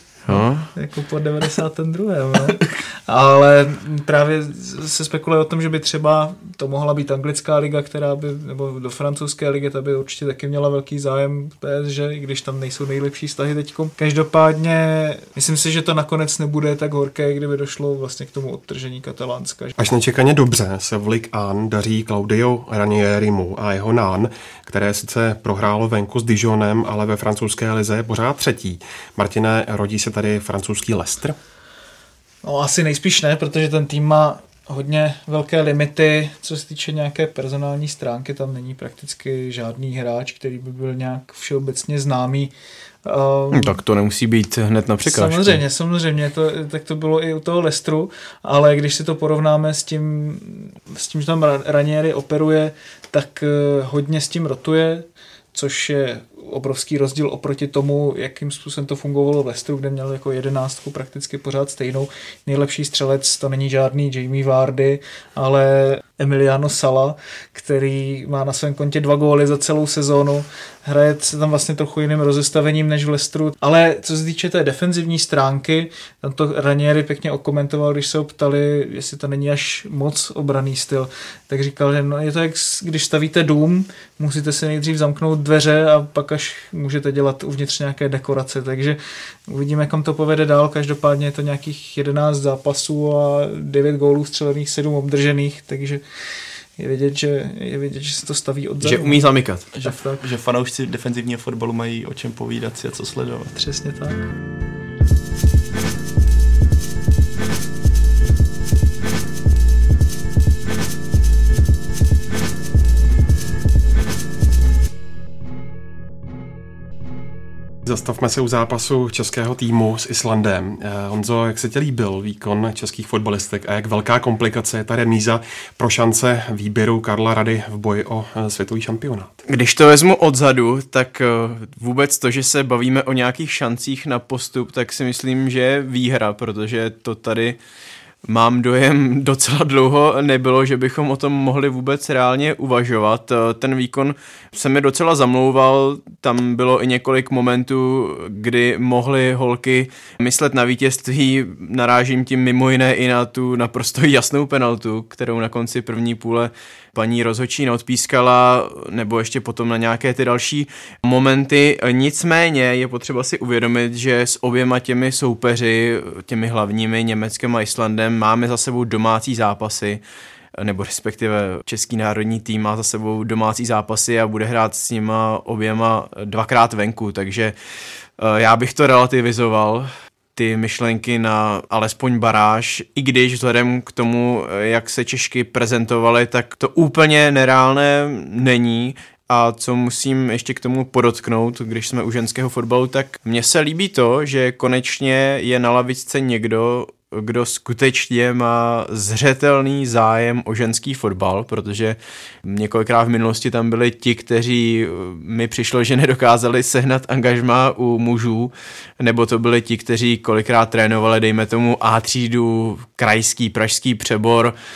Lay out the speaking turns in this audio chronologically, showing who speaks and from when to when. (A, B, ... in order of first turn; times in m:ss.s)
0:00.3-0:00.7 A
0:00.3-0:19.8 B
0:19.8-0:31.4 C
0:32.4-0:42.5 B
0:43.0-0:43.8 B
0:43.5-0:45.6 A
0:45.1-1:36.0 B
1:36.8-1:39.2 B
1:38.8-1:39.7 A
1:39.7-1:43.5 D
1:39.8-1:40.2 B
1:43.6-1:44.3 B
1:57.8-2:09.4 C
2:09.5-2:17.6 A
2:18.2-2:50.0 A
2:50.6-2:57.6 A
2:58.2-3:34.6 A